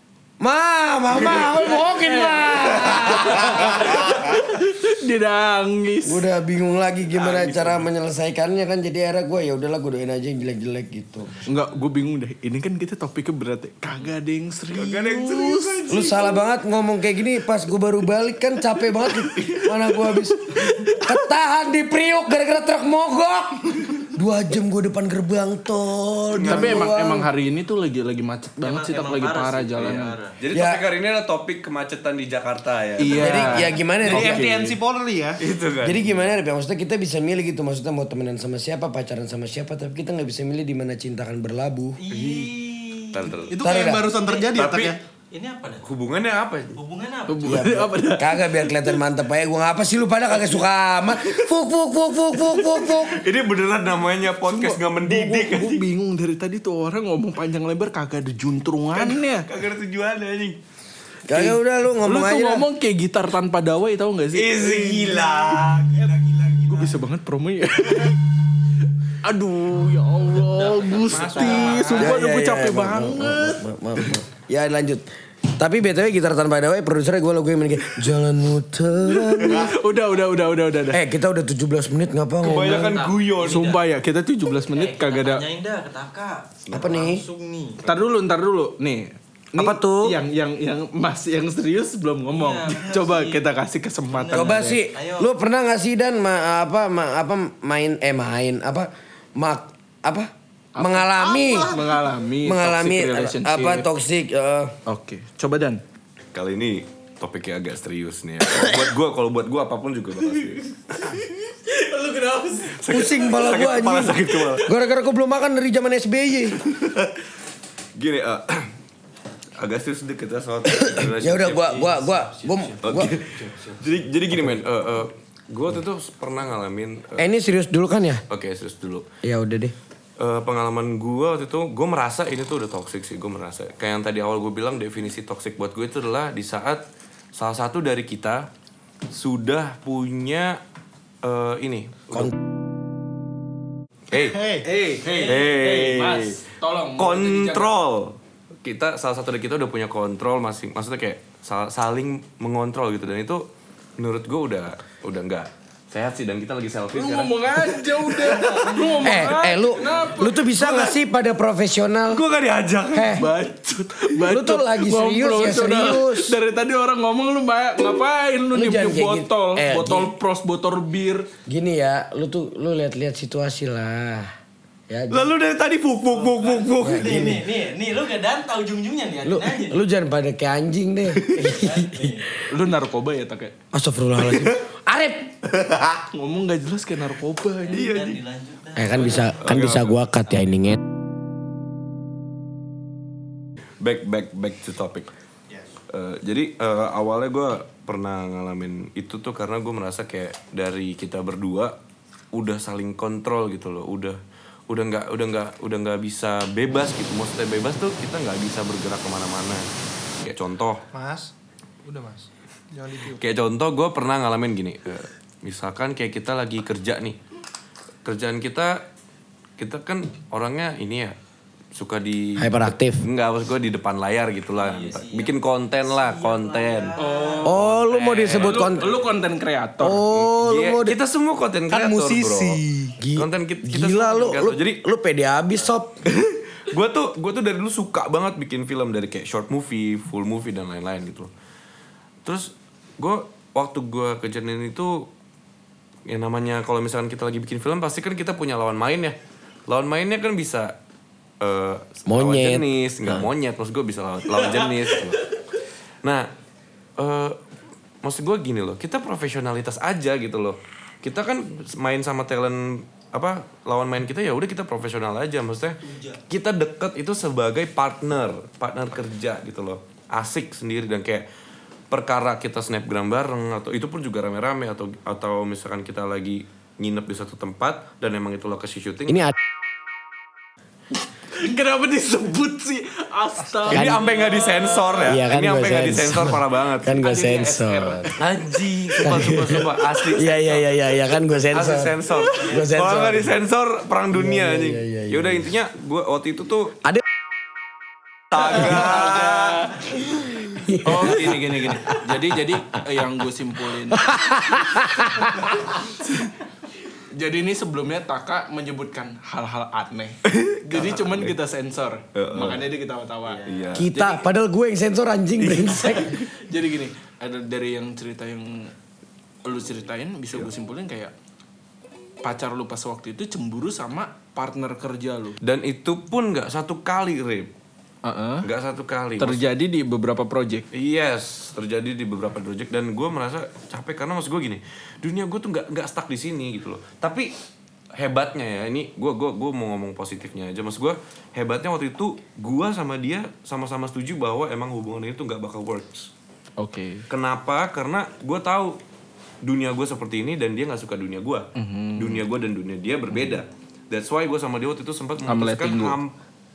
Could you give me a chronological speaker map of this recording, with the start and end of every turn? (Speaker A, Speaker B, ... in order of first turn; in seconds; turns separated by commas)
Speaker A: 0.4-4.3, Speaker B: 1.2-6.2, Speaker A: 6.0-11.4, Speaker C: 7.1-7.9, Speaker B: 11.4-16.2, Speaker C: 14.7-16.3, Speaker A: 15.9-27.3, Speaker B: 20.5-21.1, Speaker C: 26.3-26.9, Speaker B: 26.4-30.1, Speaker D: 28.6-30.4, Speaker C: 30.4-33.6, Speaker A: 30.5-30.8, Speaker B: 33.0-34.8, Speaker A: 33.1-34.5, Speaker E: 34.0-35.4, Speaker C: 35.4-36.3, Speaker A: 35.8-42.0, Speaker D: 42.0-44.6, Speaker C: 42.1-42.5, Speaker C: 43.1-43.5, Speaker E: 43.5-45.0, Speaker A: 43.6-44.1, Speaker C: 44.5-45.0, Speaker D: 45.3-45.8, Speaker C: 45.8-46.8, Speaker D: 46.8-47.6, Speaker B: 47.3-49.0, Speaker A: 47.4-53.2, Speaker C: 52.8-55.9, Speaker B: 54.5-59.5, Speaker C: 58.9-60.6, Speaker A: 61.3-62.6, Speaker B: 61.3-64.7, Speaker C: 64.3-66.9, Speaker B: 66.7-68.2, Speaker B: 69.2-74.0, Speaker C: 70.6-72.1, Speaker E: 71.0-72.1, Speaker A: 72.0-79.7, Speaker B: 79.1-81.0, Speaker A: 80.9-83.0, Speaker C: 82.4-83.7, Speaker D: 82.5-83.8, Speaker B: 83.4-85.5, Speaker D: 84.7-87.8, Speaker A: 86.7-87.2, Speaker B: 87.8-94.8, Speaker A: 89.5-90.2, Speaker D: 92.3-93.4, Speaker D: 94.1-95.3, Speaker A: 94.3-101.8, Speaker B: 100.8-103.9, Speaker A: 102.4-104.7, Speaker B: 104.8-105.8, Speaker C: 106.3-111.2, Speaker B: 110.9-112.8, Speaker C: 112.7-114.7, Speaker A: 112.9-116.6, Speaker C: 116.7-117.2, Speaker C: 118.0-118.7, Speaker C: 119.6-122.2, Speaker A: 120.7-123.2, Speaker C: 122.8-127.3, Speaker A: 127.2-128.2, Speaker C: 128.3-129.0, Speaker A: 129.2-129.7, Speaker C: 130.2-136.8, Speaker C: 137.3-138.5, Speaker C: 139.1-140.6, Speaker C: 141.2-142.3, Speaker C: 144.1-144.4, Speaker E: 144.1-144.7, Speaker B: 144.6-147.7, Speaker D: 145.1-145.4, Speaker C: 145.1-146.3, Speaker C: 147.0-153.4, Speaker C: 154.0-158.9, Speaker B: 156.9-160.8, Speaker A: 159.0-162.2, Speaker C: 160.6-160.9, Speaker C: 162.1-163.2, Speaker A: 162.9-163.3, Speaker B: 163.1-171.3, Speaker A: 164.2-166.4, Speaker A: 168.5-170.1, Speaker A: 171.4-174.3, Speaker A: 174.9-175.3, Speaker C: 175.1-177.2, Speaker D: 176.1-179.8, Speaker A: 176.8-177.4, Speaker A: 179.2-182.3, Speaker D: 181.3-182.3, Speaker B: 182.5-183.5, Speaker A: 183.7-185.4, Speaker C: 184.2-184.6, Speaker C: 185.5-186.0, Speaker B: 186.1-187.9, Speaker D: 187.6-189.4, Speaker C: 187.7-188.2, Speaker A: 188.7-190.8, Speaker C: 189.4-190.0, Speaker C: 193.8-195.1, Speaker C: 195.9-201.7, Speaker C: 202.3-209.7, Speaker C: 210.2-210.8, Speaker E: 210.9-211.3, Speaker E: 211.8-213.2, Speaker C: 213.1-217.2, Speaker C: 218.0-218.8, Speaker C: 219.6-221.2, Speaker C: 221.7-228.9, Speaker A: 222.4-223.0, Speaker D: 224.6-225.3, Speaker D: 225.9-227.6, Speaker B: 227.0-227.6, Speaker A: 227.4-228.9, Speaker B: 228.3-230.0, Speaker A: 229.8-231.0, Speaker C: 230.1-234.8, Speaker E: 231.7-232.9, Speaker A: 233.0-236.0, Speaker C: 236.1-241.3, Speaker C: 242.2-245.1, Speaker C: 246.1-249.2, Speaker C: 249.7-250.7, Speaker C: 251.4-255.2, Speaker A: 252.1-253.2, Speaker C: 257.0-257.4, Speaker C: 258.0-265.8, Speaker D: 265.9-266.2, Speaker C: 266.3-271.3, Speaker C: 271.9-279.3, Speaker B: 281.3-285.1, Speaker C: 283.7-296.8, Speaker A: 283.7-284.0, Speaker A: 285.0-288.1, Speaker B: 288.4-289.3, Speaker A: 289.0-293.3, Speaker A: 294.1-295.4, Speaker C: 298.3-299.7, Speaker B: 298.6-299.9, Speaker A: 300.4-301.8, Speaker B: 300.7-304.1, Speaker A: 303.9-305.8, Speaker B: 306.0-306.3, Speaker B: 307.1-314.2, Speaker C: 310.2-311.3, Speaker C: 312.1-312.6, Speaker D: 313.2-313.7, Speaker C: 313.4-313.9, Speaker A: 313.7-316.2, Speaker C: 315.4-316.0, Speaker B: 316.0-318.7, Speaker B: 319.4-321.1, Speaker B: 322.2-325.4, Speaker C: 325.4-327.5, Speaker B: 328.0-328.5, Speaker C: 328.4-329.4, Speaker B: 329.2-330.6, Speaker C: 330.7-337.3, Speaker C: 337.9-346.1, Speaker B: 346.6-347.1, Speaker C: 347.1-348.8, Speaker C: 349.4-356.1, Speaker B: 351.6-352.2, Speaker B: 355.2-356.0